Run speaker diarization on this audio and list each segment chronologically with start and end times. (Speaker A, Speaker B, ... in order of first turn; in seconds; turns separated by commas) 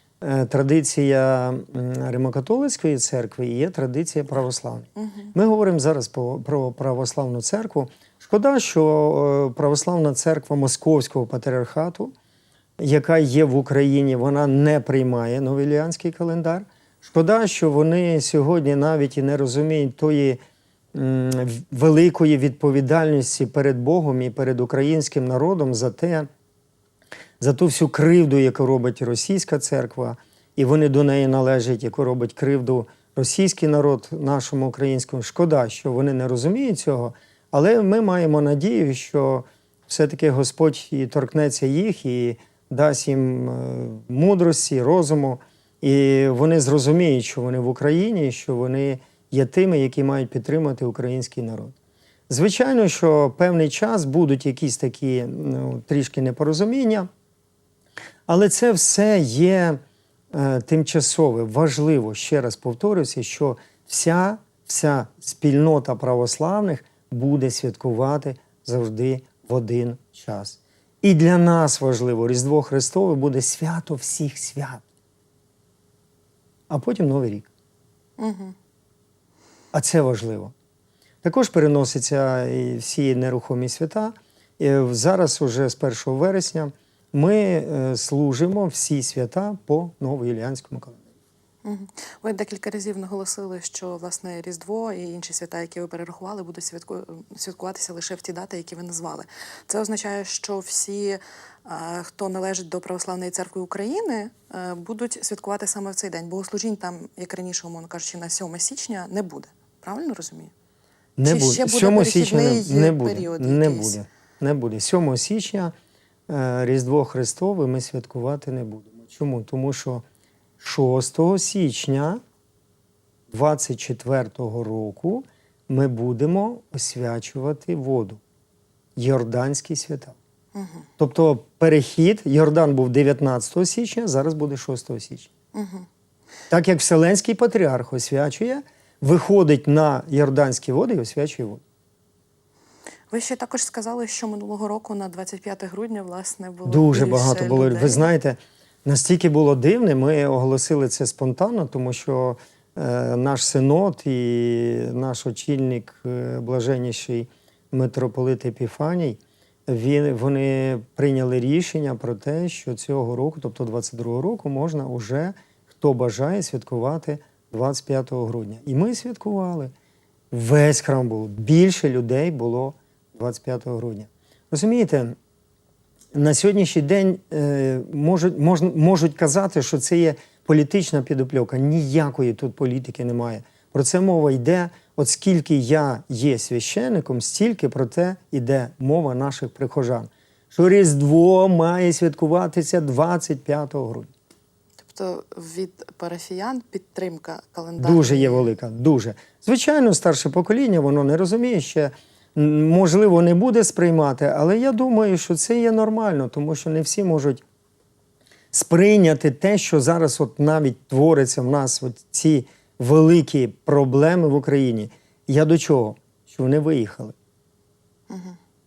Speaker A: 0.2-12.1, Speaker B: 5.0-5.3, Speaker A: 12.8-20.4, Speaker A: 20.9-26.3, Speaker A: 27.4-51.7, Speaker A: 52.3-57.1, Speaker A: 58.3-59.8, Speaker A: 60.3-74.8, Speaker A: 76.7-77.5, Speaker B: 78.2-78.5, Speaker A: 79.7-80.5, Speaker A: 81.2-91.0, Speaker B: 91.6-110.5, Speaker A: 111.2-115.7, Speaker B: 111.2-114.0, Speaker A: 116.3-120.0, Speaker A: 120.6-122.2, Speaker A: 123.3-128.2, Speaker A: 129.0-130.2, Speaker B: 130.5-130.8, Speaker A: 131.0-135.3, Speaker B: 135.5-135.9, Speaker A: 136.5-141.6, Speaker B: 143.1-148.1, Speaker A: 146.7-169.7, Speaker A: 170.3-175.2, Speaker A: 176.1-194.1, Speaker B: 194.8-198.5, Speaker A: 197.8-207.4, Speaker A: 208.5-217.1, Speaker B: 218.1-218.4